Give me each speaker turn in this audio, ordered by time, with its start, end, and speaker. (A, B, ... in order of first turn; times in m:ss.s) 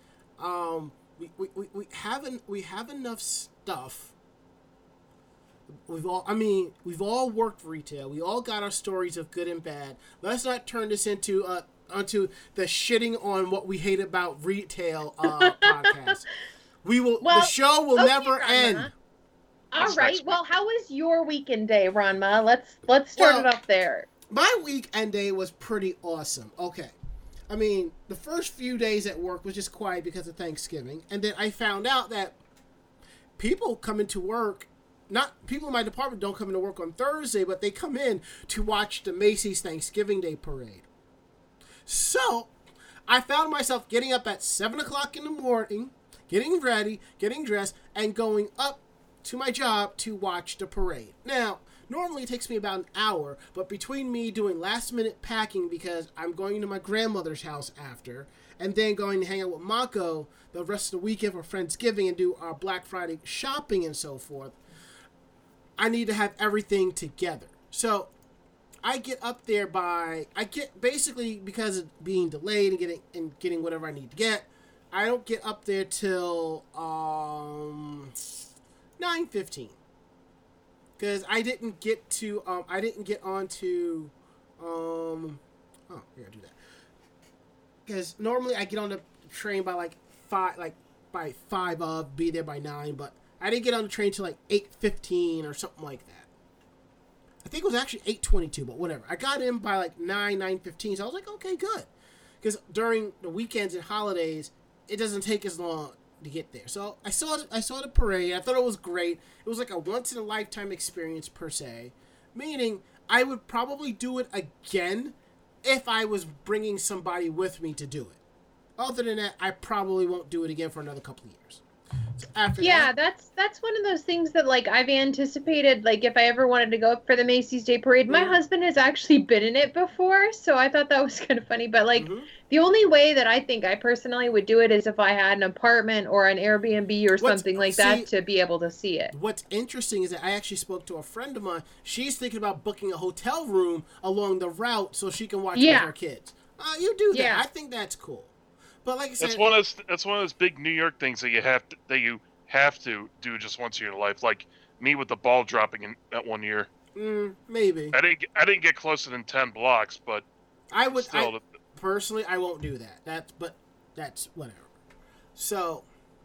0:00.4-0:04.1 A
0:05.9-0:16.3 A
0:15.2-0:16.1 B
0:16.8-0:18.9 A
0:17.2-0:18.9 B
0:19.7-0:24.1 B
0:19.8-0:20.4 C
0:23.2-0:23.5 A
0:24.3-0:26.9 A
0:27.5-0:32.4 A
0:33.4-0:40.9 A
0:41.9-0:42.5 A
0:43.1-1:04.6 A
1:05.8-1:08.1 A
1:08.8-1:18.2 A
1:19.0-1:19.8 A
1:21.0-1:26.6 A
1:27.9-1:36.3 A
1:37.4-1:41.9 A
1:42.4-1:58.2 A
1:58.8-2:01.6 A
2:02.2-2:02.9 A
2:02.6-2:19.1 B
2:08.1-2:08.4 A
2:12.0-2:12.3 A
2:17.2-2:18.1 A
2:19.1-2:28.3 A
2:25.6-2:25.9 B
2:27.1-2:27.4 B
2:28.8-2:29.4 A
2:29.2-2:36.7 C
2:37.0-2:38.0 A
2:37.9-2:40.2 C
2:40.7-2:44.7 A
2:40.9-2:41.4 C
2:45.4-2:45.9 A